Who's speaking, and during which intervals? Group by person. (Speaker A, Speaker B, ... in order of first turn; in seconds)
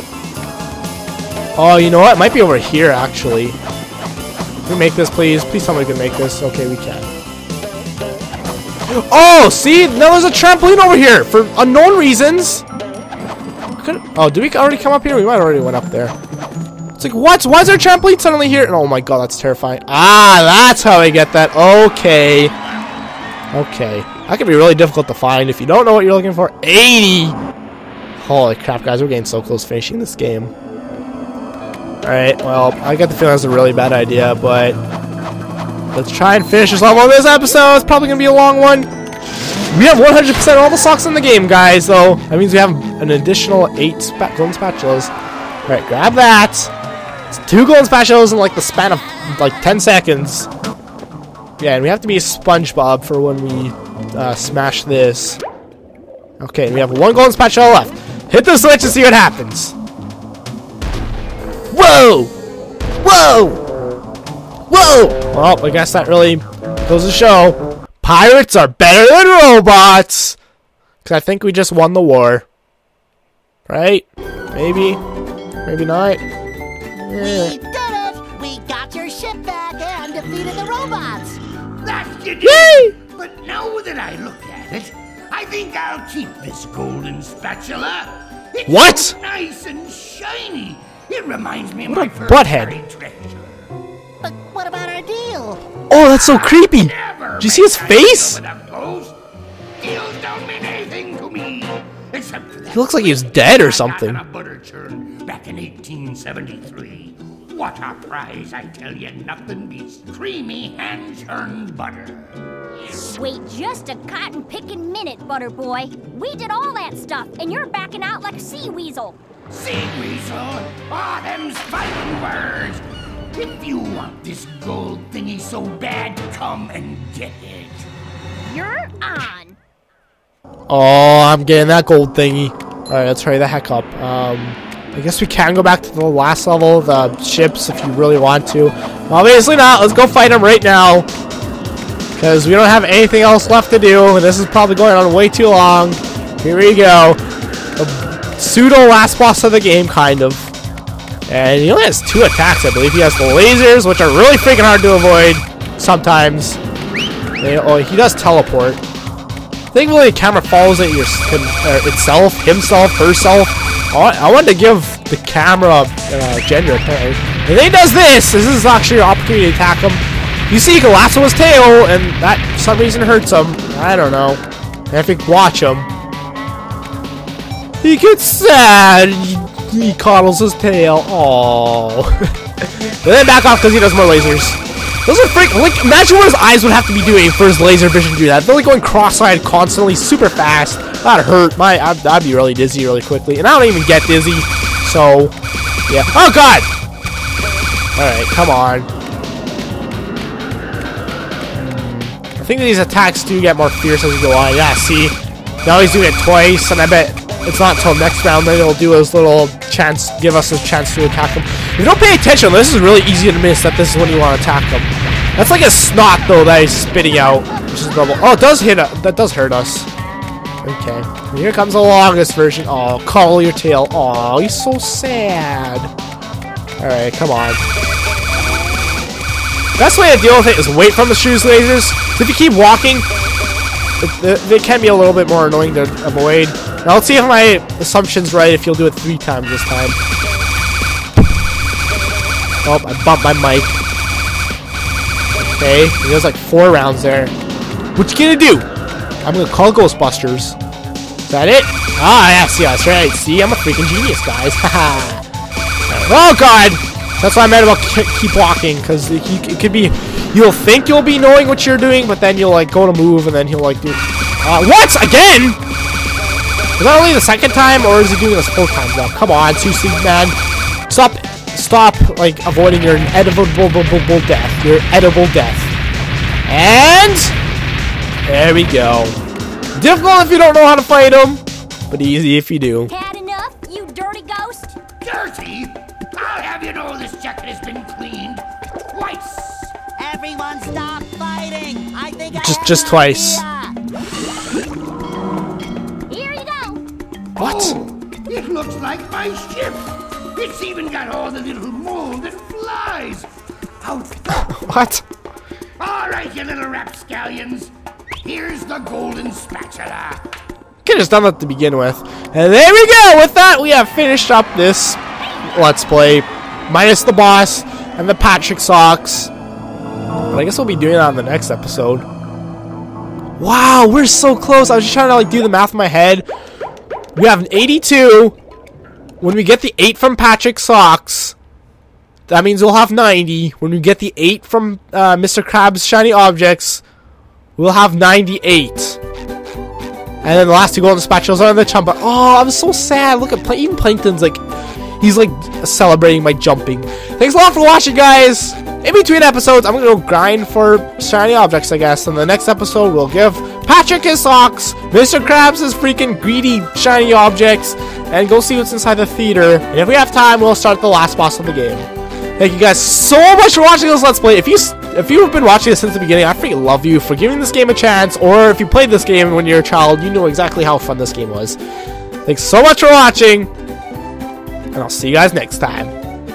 Speaker A: 1.6-3.6, 4.7-7.1, 8.9-12.6, 13.8-16.1, 17.0-22.5, 23.5-27.4, 28.2-30.5, 32.0-34.8, 35.9-38.9, 39.7-45.1, 45.7-46.7, 47.3-50.5, 51.6-55.4, 56.4-59.7, 61.7-62.3, 63.0-63.6, 64.7-70.4, 71.0-72.5, 73.7-75.0, 75.6-76.2, 77.0-77.5, 82.4-82.9, 88.7-89.2, 91.9-92.8, 95.9-98.4, 102.7-104.2, 130.7-141.1, 142.2-147.2, 147.8-150.5, 151.3-156.6, 157.4-158.8, 159.7-175.9, 177.8-195.3, 195.9-196.7, 197.9-198.9, 201.5-219.9, 220.6-225.9, 226.8-227.6, 229.8-233.1, 234.0-240.0, 242.6-243.8, 245.6-247.3, 247.9-248.7, 249.2-250.6, 251.2-255.2, 255.9-265.6, 266.8-270.4, 270.9-275.7, 276.4-277.3, 278.2-279.2, 279.7-282.9, 292.3-293.4, 297.4-297.8, 304.3-305.0, 310.8-319.3, 320.3-322.1, 323.4-326.2, 327.1-328.3, 329.2-331.4, 332.3-336.8, 337.6-339.0, 340.2-344.4, 345.0-371.6, 372.2-373.5, 374.7-375.9
Speaker B: 77.1-81.4, 94.2-95.6, 290.0-293.8
Speaker C: 81.8-93.7, 96.2-99.2, 99.8-112.3, 119.5-122.8, 123.3-127.9, 285.0-289.7, 297.4-303.3, 303.8-304.7, 305.8-307.7, 308.2-310.2
Speaker D: 113.0-119.2, 128.4-129.6, 282.9-284.8, 296.1-296.8